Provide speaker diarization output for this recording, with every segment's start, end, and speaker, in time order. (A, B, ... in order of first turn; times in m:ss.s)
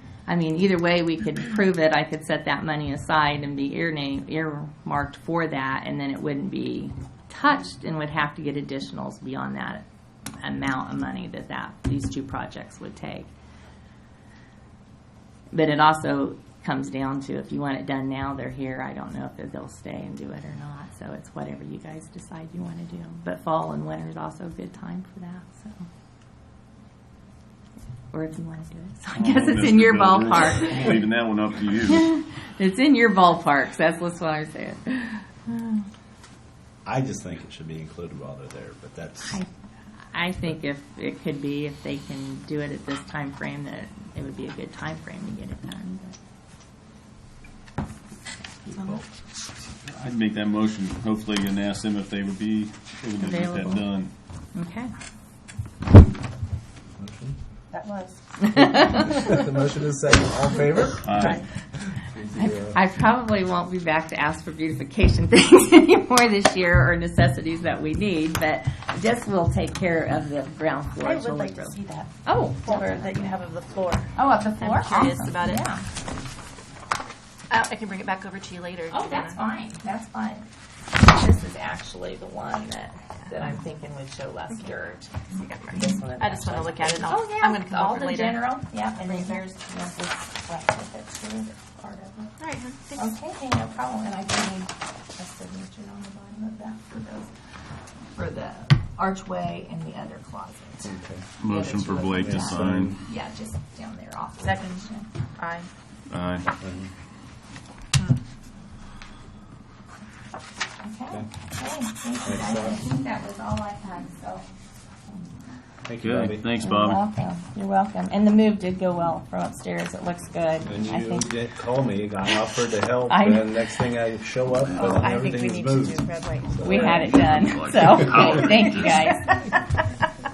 0:00.3-0:09.8 A
0:10.4-0:13.3 A
0:15.5-0:25.8 A
0:28.1-0:31.0 A
0:29.1-0:32.1 B
0:31.8-0:35.9 A
0:36.8-0:39.4 C
0:40.1-0:46.2 A
0:48.7-0:49.0 C
0:48.7-0:49.0 A
0:49.9-0:54.1 B
0:53.2-0:53.9 A
0:54.5-0:54.9 A
0:57.0-0:57.4 C
0:57.7-0:58.2 D
0:58.5-0:59.1 A
0:58.5-1:01.4 C
1:01.0-1:01.4 B
1:02.1-1:02.8 C
1:02.3-1:13.4 A
1:11.0-1:15.7 D
1:14.2-1:15.8 A
1:17.5-1:19.4 D
1:18.9-1:32.4 A
1:25.4-1:28.4 D
1:32.4-1:33.1 D
1:33.0-1:37.3 A
1:38.2-1:45.1 A
1:40.8-1:41.3 C
1:41.4-1:43.0 B
1:42.2-1:43.0 C
1:44.4-1:45.7 D
1:46.1-1:46.5 B
1:46.6-1:46.9 C
1:50.8-1:54.5 A
1:52.2-1:52.8 C
1:55.9-1:56.4 C
1:56.0-1:57.0 B
1:56.6-2:01.3 A
2:00.6-2:07.1 C
2:03.1-2:03.7 A
2:04.6-2:04.9 B
2:04.8-2:07.0 D
2:06.6-2:09.2 B
2:06.6-2:09.5 A